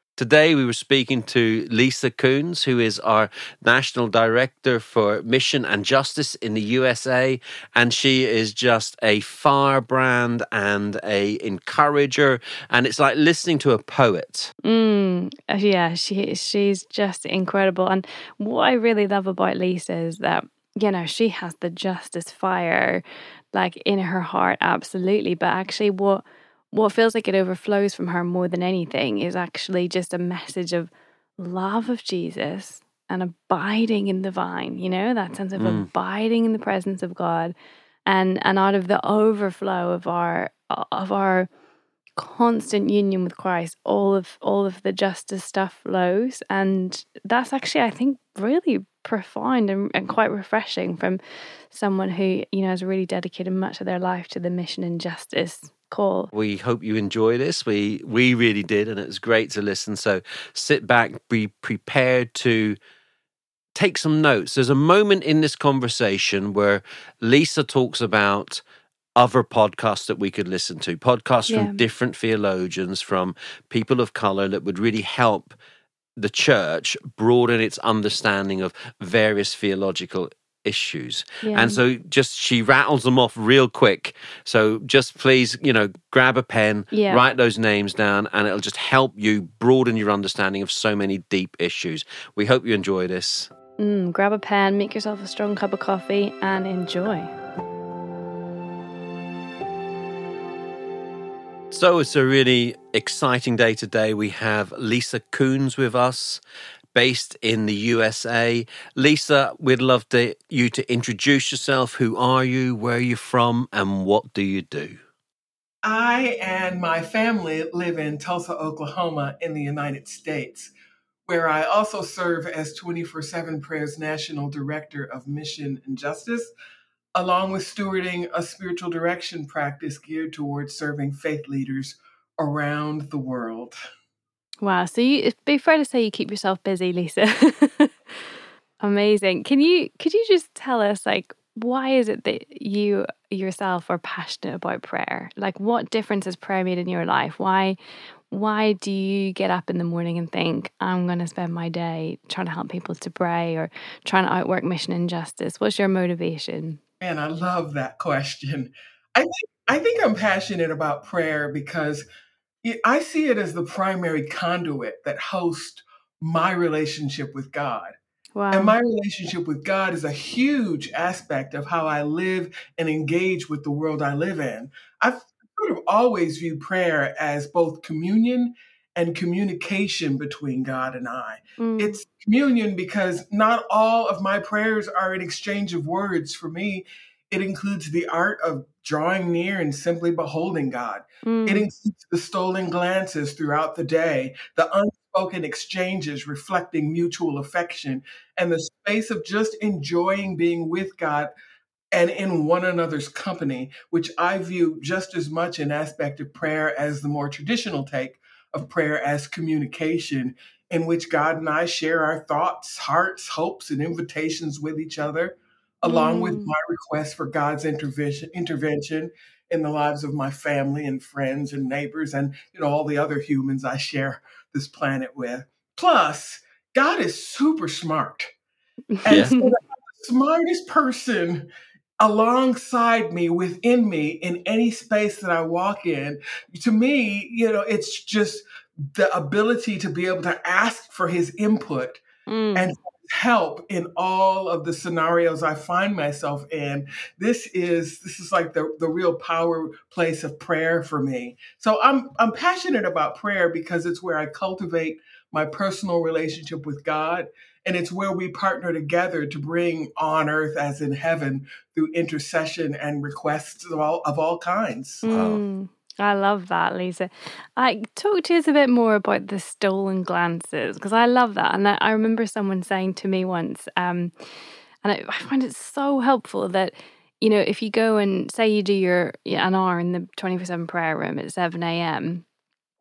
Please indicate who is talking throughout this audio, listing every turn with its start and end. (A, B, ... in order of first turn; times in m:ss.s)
0:00.2-0:14.5 A
0:14.6-0:37.5 B
0:35.6-0:35.9 A
0:38.1-0:41.5 B
0:42.2-0:56.3 B
0:56.3-1:02.8 A
1:03.7-1:08.6 A
1:09.2-1:15.6 A
1:11.5-1:11.8 B
1:16.2-1:33.5 A
1:21.4-1:21.8 B
1:26.9-1:27.2 B
1:33.8-1:37.3 B
1:41.7-1:46.4 A
1:46.9-1:55.0 A
1:55.8-2:00.7 C
2:01.2-2:06.5 C
2:07.1-2:13.7 C
2:14.6-2:17.9 B
2:18.8-2:27.8 B
2:28.3-2:36.8 B
2:37.0-2:42.0 C
2:42.6-2:48.0 C
2:48.4-2:48.8 B
2:48.5-3:21.3 C
3:01.6-3:02.0 B
3:11.2-3:11.6 B
3:21.9-3:48.3 C
3:35.8-3:36.5 B
3:48.9-3:49.5 B
3:49.0-3:51.5 C
3:49.1-3:49.3 A
3:52.0-4:02.0 C
4:02.3-4:02.7 B
4:02.5-4:25.0 C
4:25.0-4:34.1 B
4:25.0-4:25.4 A
4:34.8-4:42.2 B